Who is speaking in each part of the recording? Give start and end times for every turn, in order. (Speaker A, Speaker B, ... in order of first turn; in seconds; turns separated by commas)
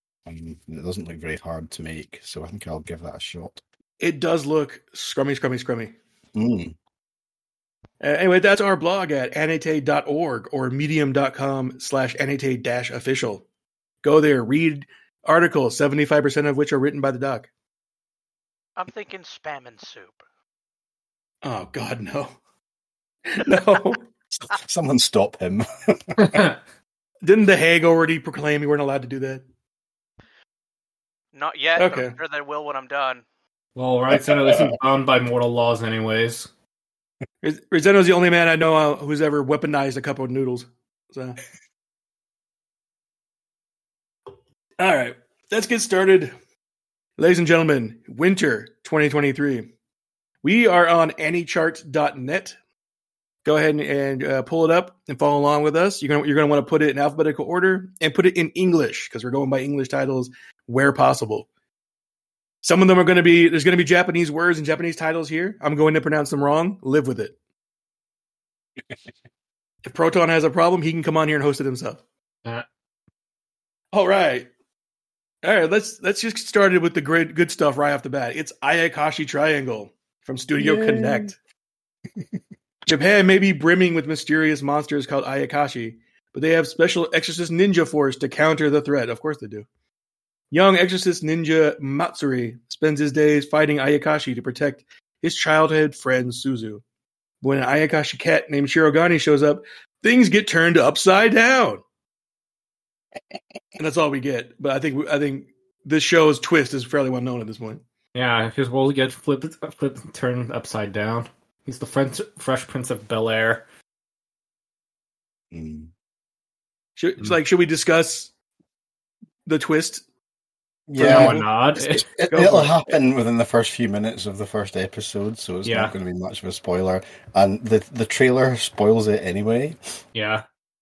Speaker A: 0.2-3.6, Speaker B: 4.0-6.0, Speaker A: 6.3-6.7, Speaker B: 8.0-13.4, Speaker B: 14.0-17.5, Speaker C: 18.8-20.2, Speaker B: 21.4-22.4, Speaker B: 23.2-24.1, Speaker A: 24.4-26.5, Speaker D: 26.2-26.6, Speaker B: 27.2-29.4, Speaker C: 31.3-33.2, Speaker B: 31.8-32.2, Speaker D: 33.7-36.5, Speaker A: 34.1-34.8, Speaker B: 37.4-41.4, Speaker B: 44.8-46.3, Speaker B: 47.2-49.7, Speaker B: 50.4-52.5, Speaker B: 53.4-61.5, Speaker B: 62.6-67.3, Speaker B: 69.8-72.0, Speaker B: 73.9-74.5, Speaker B: 75.4-81.3, Speaker A: 80.6-81.3, Speaker B: 82.8-89.7, Speaker B: 90.5-96.8, Speaker B: 97.4-101.8, Speaker B: 103.8-107.8, Speaker D: 108.1-113.6, Speaker A: 115.5-115.9, Speaker B: 117.0-118.3, Speaker B: 119.5-120.0, Speaker A: 120.9-129.8, Speaker D: 121.0-122.0, Speaker B: 121.0-121.4, Speaker B: 122.3-122.8, Speaker D: 125.6-125.9, Speaker D: 130.1-130.4